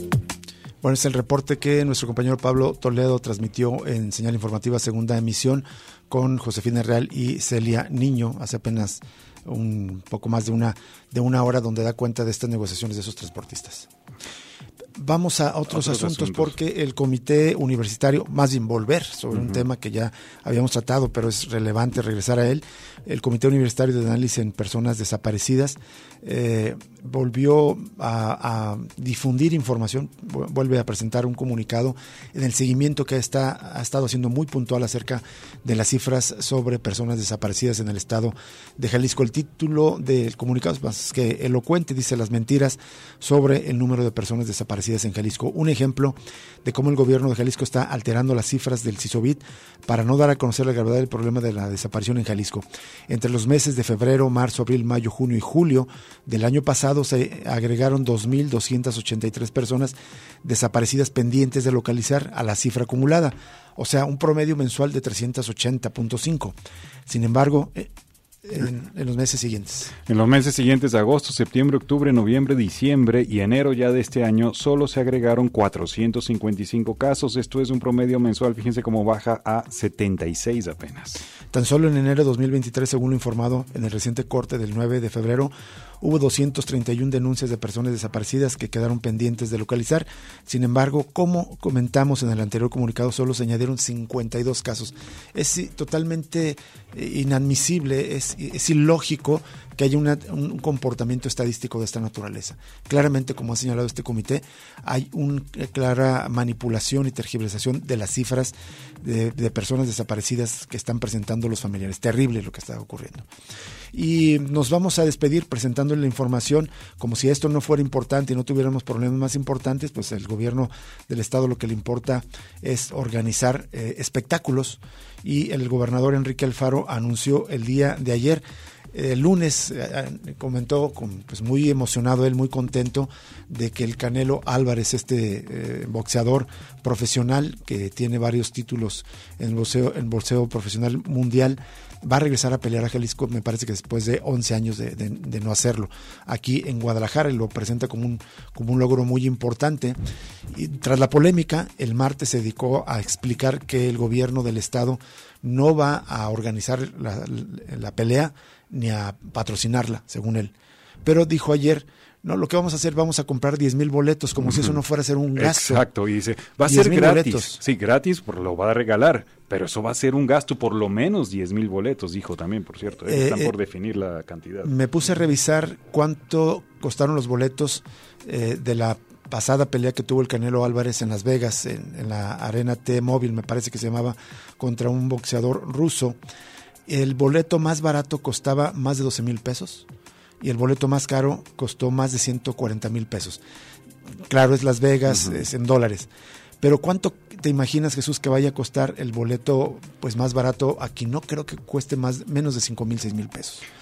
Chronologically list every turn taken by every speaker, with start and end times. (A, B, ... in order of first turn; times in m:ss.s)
0:00.8-0:13.9 A
0:15.0-1:07.9 A
0:15.7-0:16.5 B
0:19.3-0:19.6 B
1:08.4-1:09.9 A
1:10.1-1:21.2 B
1:21.5-1:53.3 A
1:53.9-2:30.0 A
2:30.5-2:45.8 A
2:44.4-2:44.8 B
2:45.4-2:54.7 B
2:46.6-2:47.6 A
2:53.0-2:53.5 A
2:54.6-3:06.2 A
3:06.9-3:09.9 A
3:10.4-3:13.4 A
3:14.3-3:16.1 A
3:15.1-3:15.4 B
3:16.6-3:23.6 A